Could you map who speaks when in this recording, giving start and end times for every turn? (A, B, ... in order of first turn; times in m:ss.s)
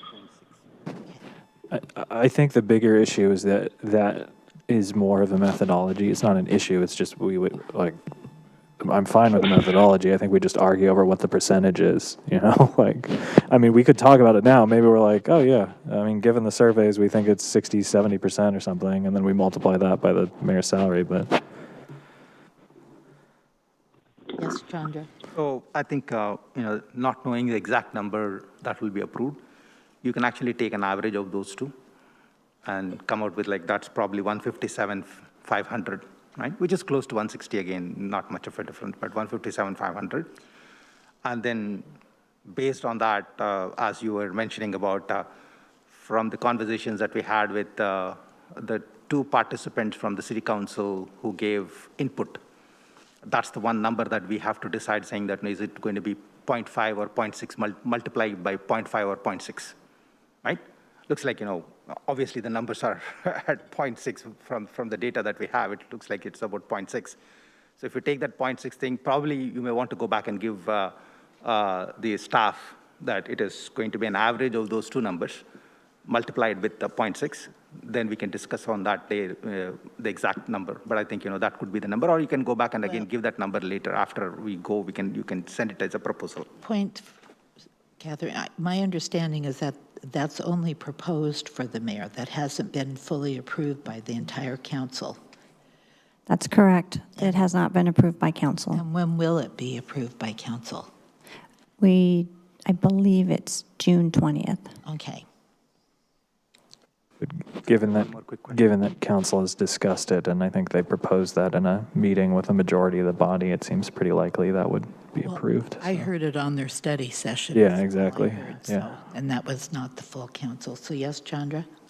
0:00.1-0:00.6 A
0:01.7-0:08.0 B
0:08.8-0:21.3 B
0:24.4-0:25.1 C
0:25.3-0:29.4 A
0:30.0-0:31.7 A
0:32.6-0:40.3 A
0:41.2-0:41.9 A
0:42.5-0:45.3 A
0:45.9-0:52.4 A
0:53.2-0:59.8 A
1:00.4-1:07.2 A
1:07.8-1:15.4 A
1:16.1-1:26.5 A
1:26.6-1:27.1 C
1:28.0-1:35.2 C
1:36.3-1:38.8 D
1:37.2-1:37.4 C
1:38.7-1:40.9 C
1:41.8-1:44.7 D
1:44.8-1:45.2 C
1:47.2-1:56.1 B
1:47.7-1:48.6 A
1:55.2-2:01.7 C
1:57.5-1:58.9 B